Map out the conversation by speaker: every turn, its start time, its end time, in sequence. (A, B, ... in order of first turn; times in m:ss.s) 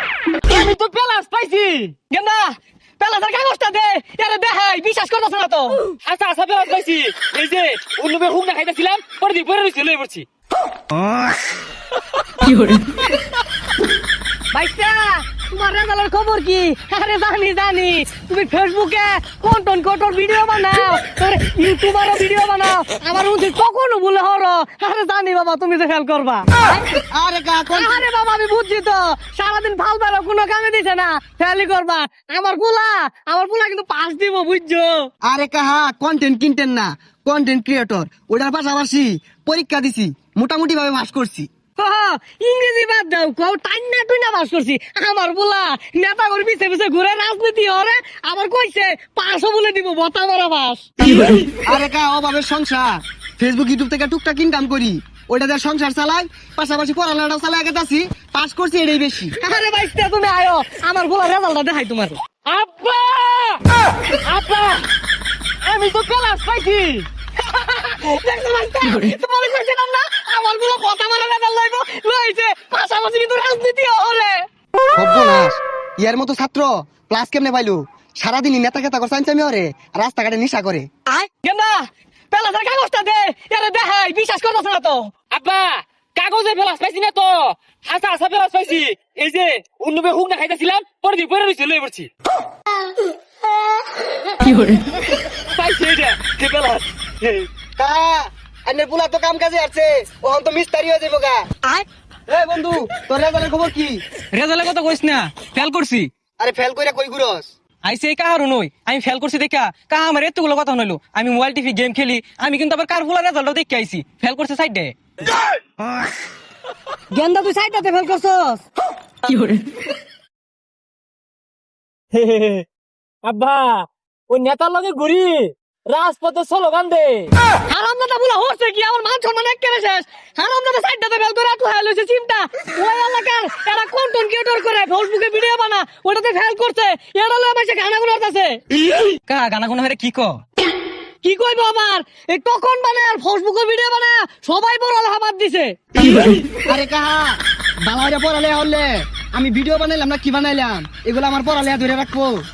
0:00.5-0:02.0 A
0:02.1-0:05.8 B
0:06.1-0:10.2 A
0:14.5-0:26.8 B
0:27.1-0:28.0 C
0:27.8-0:35.1 B
0:35.2-0:41.5 C
0:41.8-0:51.3 B
0:51.5-0:59.3 C
0:59.4-1:02.2 B
1:02.5-1:03.6 A
1:04.3-1:04.9 A
1:05.7-1:07.1 A
1:07.4-1:14.4 B
1:15.0-1:20.9 C
1:21.1-1:25.1 B
1:25.3-1:32.1 A
1:35.6-1:37.5 A
1:37.8-1:41.6 C
1:42.3-1:44.0 C
1:44.3-1:46.1 D
1:44.7-1:45.0 A
1:46.4-1:47.5 C
1:47.8-1:54.9 D
1:57.1-1:58.6 B
1:59.3-1:59.6 A
2:02.2-2:02.6 A
2:03.2-2:07.3 A
2:07.7-2:18.6 B
2:19.3-2:20.4 A
2:19.9-2:20.2 D
2:21.2-2:26.1 B
2:26.5-2:32.4 C